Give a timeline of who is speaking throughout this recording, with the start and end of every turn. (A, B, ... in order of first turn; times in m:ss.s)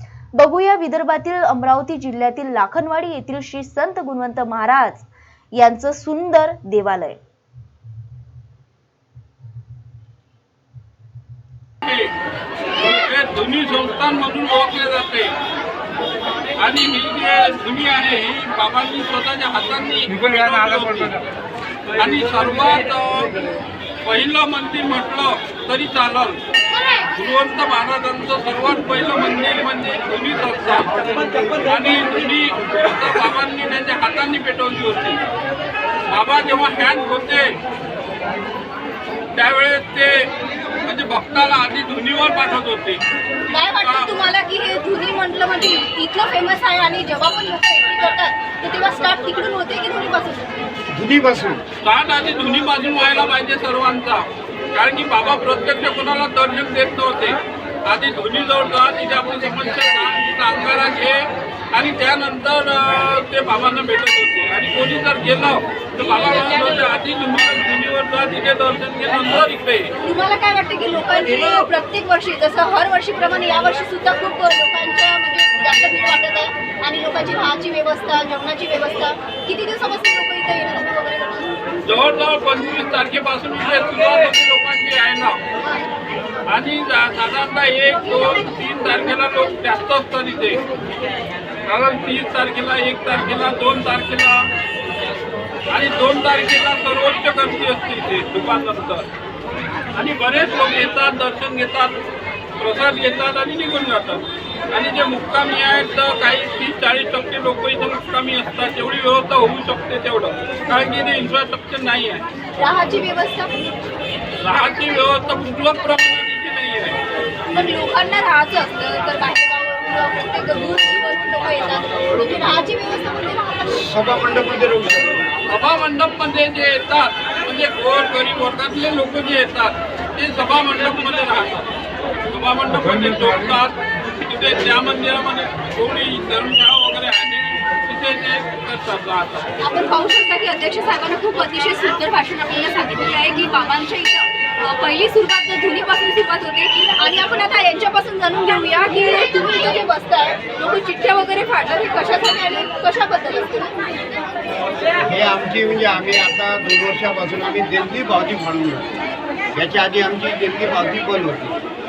0:00.4-0:07.2 A
0:11.8-0:12.1 B
0:12.8-0:15.4 B
0:16.6-0:21.2 B
0:22.0-0:23.4 B
0:24.0-0:26.4 B
0:27.1-0:31.0 B
0:31.6-0:35.2 B
0:36.1-0:37.5 B
0:39.4-0:40.3 B
0:40.8-0:43.0 B
0:43.5-0:50.6 C
0:43.7-0:44.1 B
0:50.9-0:51.6 D
0:51.8-1:09.9 B
1:10.0-1:21.6 C
1:21.8-1:25.4 B
1:26.5-1:30.6 B
1:31.7-1:34.5 B
1:35.7-1:39.1 B
1:40.0-1:42.0 B
1:42.6-1:52.2 B
1:52.6-1:53.5 C
1:54.4-1:57.0 B
1:57.5-2:03.7 C
2:03.7-2:05.2 D
2:05.5-2:11.7 B
2:12.3-2:19.5 B
2:19.6-2:34.2 C
2:35.0-2:38.9 D
2:39.5-2:41.6 D